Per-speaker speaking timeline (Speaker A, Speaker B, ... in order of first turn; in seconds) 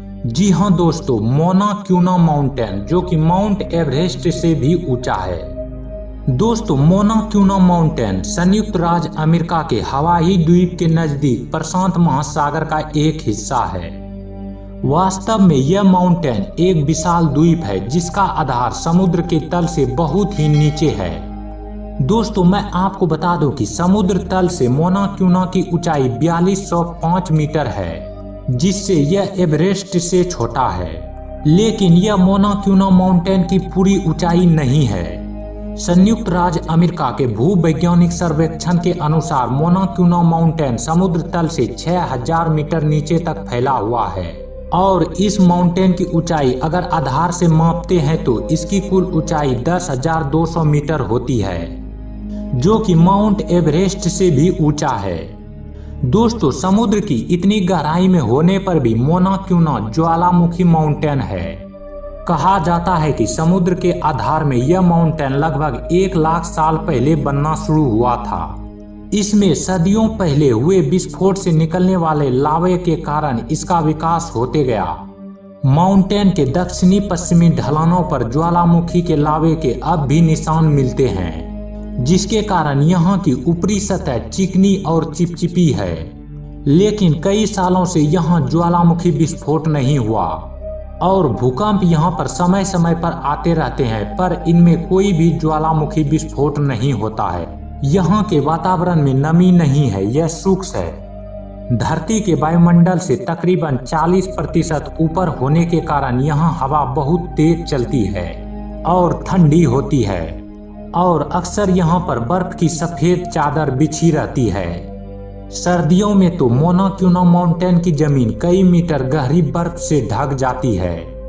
Speaker A: 0.3-5.5, 6.3-13.9, 14.8-21.2, 22.0-35.2, 35.8-51.7, 52.5-55.3, 56.0-61.6, 62.2-68.5, 69.1-75.0, 75.6-86.1, 86.7-90.4, 91.0-101.0, 101.7-110.4, 110.9-114.9, 115.5-121.1